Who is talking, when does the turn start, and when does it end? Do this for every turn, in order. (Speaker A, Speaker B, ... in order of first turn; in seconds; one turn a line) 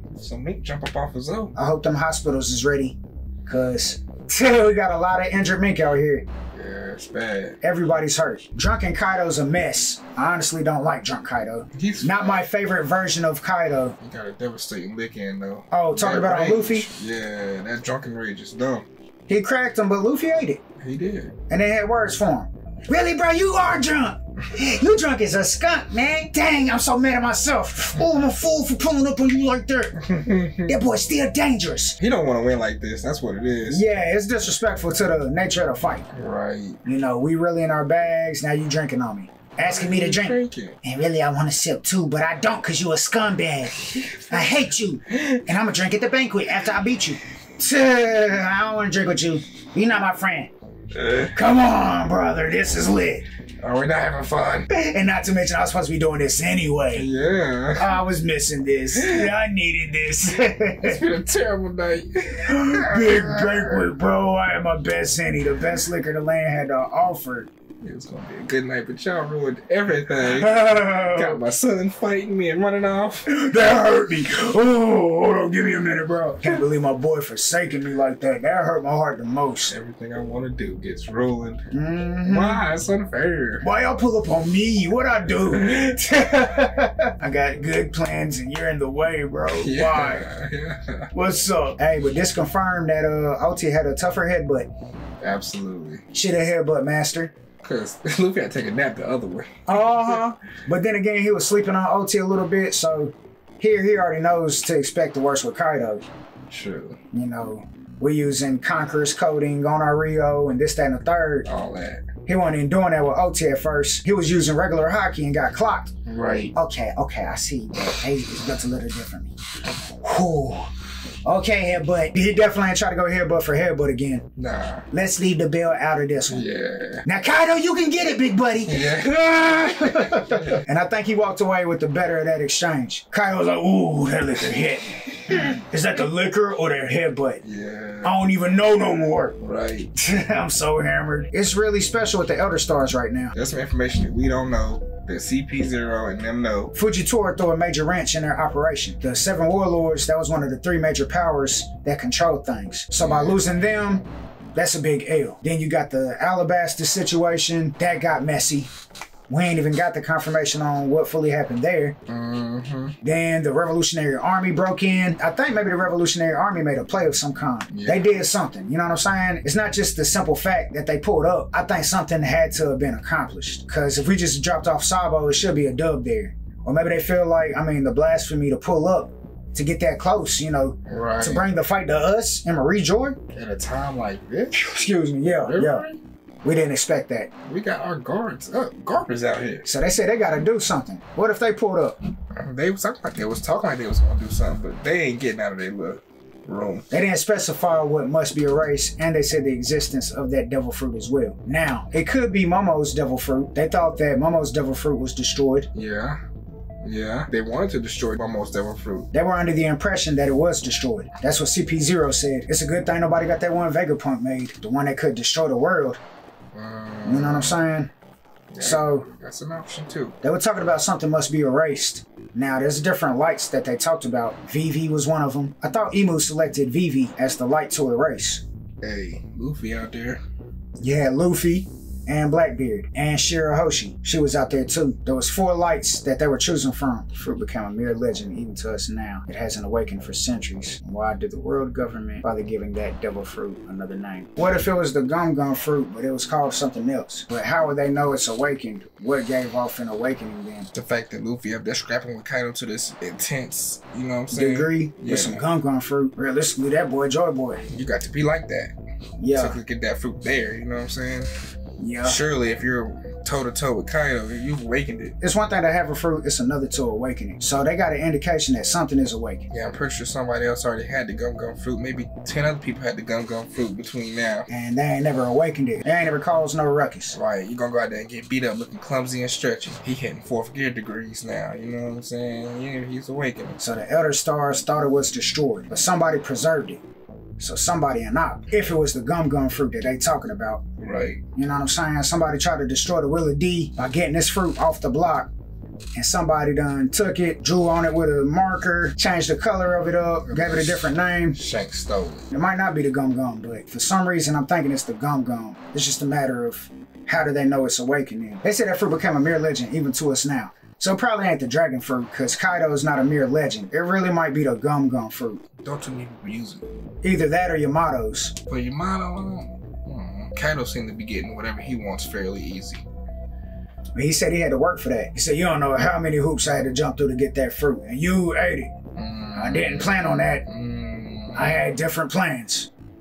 Speaker A: 0.1-1.5
Speaker B: 1.5-6.2
Speaker A: 6.5-7.6
Speaker B: 7.6-13.9
Speaker A: 11.7-12.5
Speaker A: 14.0-18.9
Speaker B: 15.7-16.9
Speaker B: 19.3-20.6
Speaker A: 20.8-21.3
Speaker B: 21.5-32.0
Speaker A: 30.0-30.7
Speaker A: 32.0-33.8
Speaker B: 33.7-36.1
Speaker A: 36.1-36.8
Speaker B: 36.8-50.5
Speaker A: 39.6-40.8
Speaker A: 43.8-45.4
Speaker A: 50.9-51.3
Speaker B: 51.2-53.3
Speaker A: 53.6-54.7
Speaker B: 54.7-57.1
Speaker A: 56.9-58.0
Speaker B: 57.8-61.0
Speaker A: 58.9-59.3
Speaker A: 60.8-63.9
Speaker B: 62.5-67.5
Speaker A: 67.8-73.3
Speaker B: 70.2-71.4
Speaker B: 73.2-79.7
Speaker A: 79.7-81.7
Speaker B: 81.7-82.6
Speaker A: 82.2-83.7
Speaker B: 83.6-90.3
Speaker A: 85.4-86.8
Speaker A: 89.5-91.1
Speaker B: 91.1-94.7
Speaker A: 95.2-96.0
Speaker B: 96.1-97.3
Speaker A: 97.6-100.3
Speaker B: 99.7-106.0
Speaker A: 106.5-107.0
Speaker B: 107.1-111.5
Speaker A: 111.4-112.0
Speaker B: 112.2-115.9
Speaker A: 116.0-116.5
Speaker B: 116.5-119.3
Speaker B: 120.0-120.7
Speaker B: 121.2-124.2
Speaker A: 124.3-124.9
Speaker B: 124.9-126.4
Speaker A: 126.3-127.0
Speaker B: 127.0-137.4
Speaker A: 128.7-130.6
Speaker A: 135.3-135.6
Speaker A: 137.4-138.1
Speaker B: 138.0-139.3
Speaker A: 139.4-139.9
Speaker B: 140.0-143.3
Speaker A: 143.3-146.7
Speaker B: 146.7-158.7
Speaker A: 153.0-153.7
Speaker B: 159.3-161.9
Speaker A: 162.1-162.9
Speaker B: 163.0-183.2
Speaker A: 167.7-168.2
Speaker A: 180.8-181.5
Speaker A: 183.3-184.6
Speaker B: 184.5-185.8
Speaker A: 185.2-186.0
Speaker B: 186.4-187.3
Speaker A: 187.4-189.6
Speaker B: 189.6-192.0
Speaker A: 192.3-196.8
Speaker B: 196.9-205.7
Speaker A: 205.7-206.2
Speaker A: 206.8-209.1
Speaker B: 209.1-216.0
Speaker A: 216.5-217.6
Speaker B: 217.0-217.9
Speaker A: 218.5-220.2
Speaker B: 218.6-219.0
Speaker B: 220.2-228.4
Speaker A: 228.8-230.2
Speaker B: 230.8-250.7
Speaker A: 250.7-255.4
Speaker B: 254.3-257.6
Speaker A: 257.7-258.8
Speaker B: 259.2-259.6
Speaker A: 259.3-261.3
Speaker B: 261.8-262.2
Speaker A: 262.0-265.1
Speaker B: 265.2-269.4
Speaker A: 269.5-274.5
Speaker B: 274.5-277.2
Speaker A: 277.1-283.6
Speaker B: 283.6-286.8
Speaker B: 287.4-290.6
Speaker A: 290.8-291.2
Speaker B: 291.3-295.3
Speaker B: 295.9-301.4
Speaker A: 300.2-302.3
Speaker B: 302.3-315.4
Speaker A: 315.6-316.6
Speaker B: 317.0-318.4
Speaker A: 318.5-322.8
Speaker B: 323.9-328.7
Speaker A: 328.9-331.6
Speaker B: 329.3-330.4
Speaker B: 331.3-332.7